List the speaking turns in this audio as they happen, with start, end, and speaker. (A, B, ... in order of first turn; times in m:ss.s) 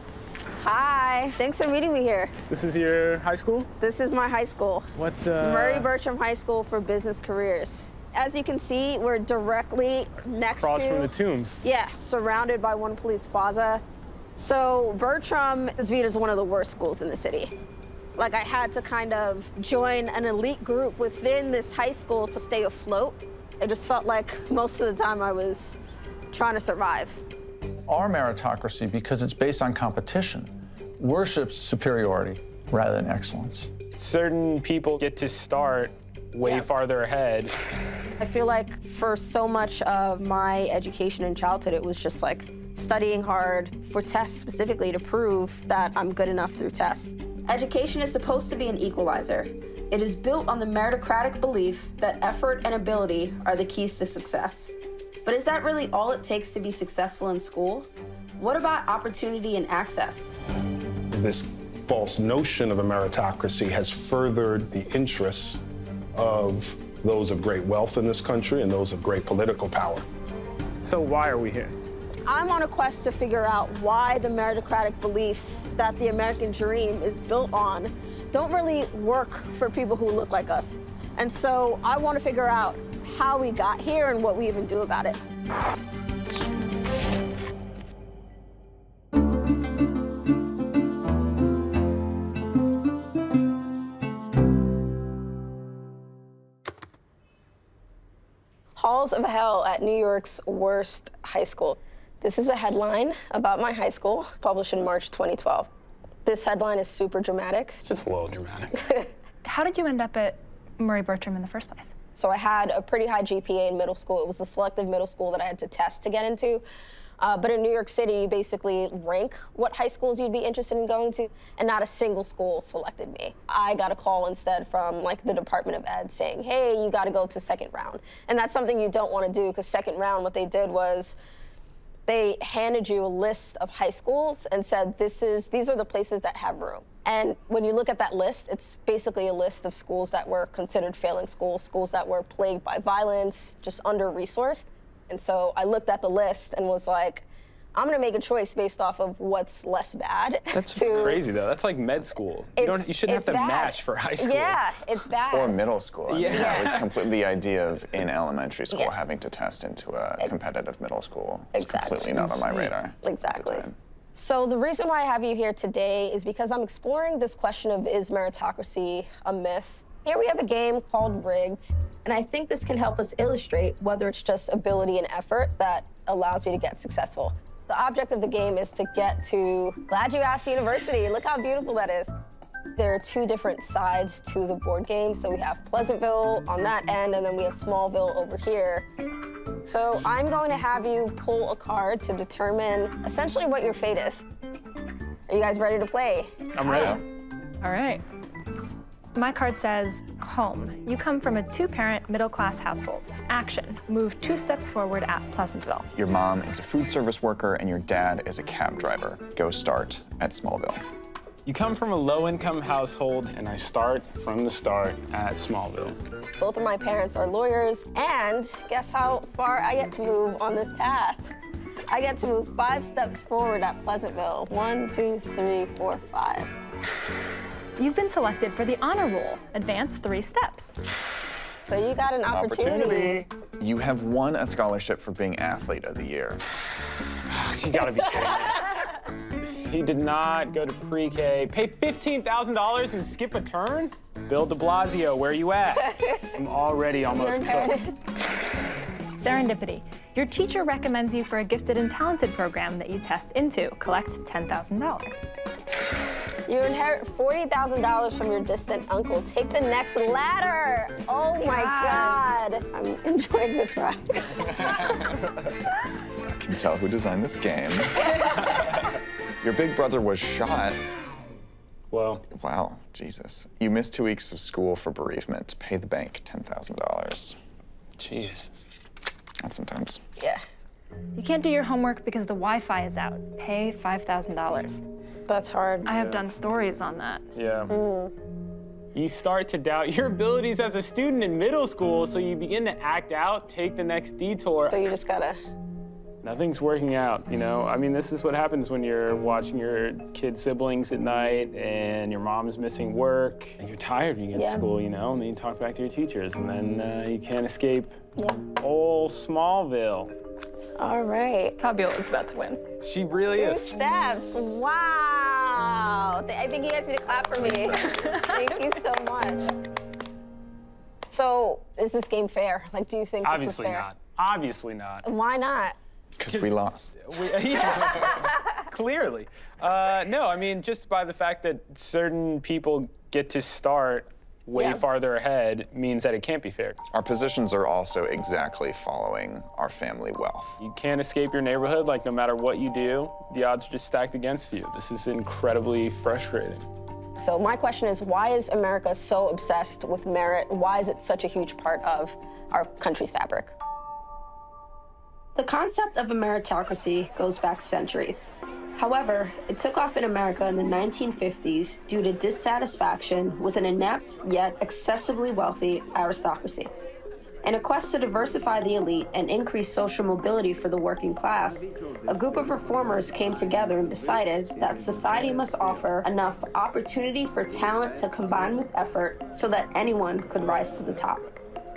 0:00.6-0:02.3 A
0:02.5-0:03.7 B
0:03.8-0:04.9 A
0:05.0-0:05.9 B
0:05.4-0:13.8 A
0:10.6-0:11.6 B
0:14.4-0:17.5 A
0:18.2-0:25.8 A
0:26.3-0:27.2 A
0:27.9-0:33.7 C
0:34.0-0:37.6 B
0:38.2-0:54.7 A
0:55.2-1:00.3 A
1:01.1-1:05.6 D
1:06.2-1:10.0 D
1:10.8-1:11.8 B
1:12.3-1:25.2 A
1:38.8-1:45.7 A
1:46.2-1:48.0 A
1:49.4-1:51.9 E
1:52.2-1:56.6 A
1:57.2-2:11.2 A
2:12.1-2:31.2 A
2:30.5-2:34.7 B
2:32.6-2:35.6 A
2:35.3-2:43.8 F
2:36.1-2:36.9 B
2:36.3-2:36.6 A
2:41.5-3:02.1 A
3:02.8-3:08.9 A
3:09.6-3:14.2 A
3:15.3-3:16.3 A
3:16.7-3:17.0 E
3:16.7-3:17.0 F
3:17.6-3:18.0 E
3:19.2-3:25.9 E
3:25.9-3:30.8 F
3:31.5-3:36.0 B
3:36.4-3:41.2 A
3:41.9-3:46.5 A
3:47.8-3:50.8 E
3:51.6-3:53.3 A
3:52.3-3:56.4 F
3:57.3-3:58.6 B
3:59.4-4:07.8 B
4:06.0-4:06.3 A
4:07.1-4:07.9 A
4:09.2-4:15.3 E
4:16.5-4:24.9 A
4:21.4-4:22.3 E
4:26.4-4:28.5 F
4:29.4-4:30.8 F
4:31.9-4:32.2 B
4:32.3-4:37.4 F
4:38.0-4:38.5 B
4:39.4-4:40.0 F
4:40.2-4:40.4 A
4:41.2-4:44.8 E
4:45.3-4:45.9 A
4:45.9-4:47.2 E
4:46.0-4:46.2 B
4:47.3-4:47.7 B
4:47.7-4:48.1 A
4:48.9-4:54.9 B
4:54.7-4:55.4 A
4:56.2-5:08.0 B
5:04.3-5:04.7 A
5:08.6-5:10.2 B
5:10.8-5:11.6 A
5:11.6-5:12.7 E
5:12.8-5:13.7 B
5:13.3-5:19.5 A
5:17.4-5:18.0 B
5:18.1-5:18.4 E
5:21.1-5:23.9 A
5:23.2-5:25.1 B
5:25.0-5:25.8 A
5:26.2-5:27.0 F
5:26.3-5:36.8 B
5:34.6-5:34.8 A
5:36.9-5:40.6 F
5:40.6-5:46.7 B
5:47.2-5:53.6 A
5:55.4-6:06.7 A
6:07.4-6:21.2 A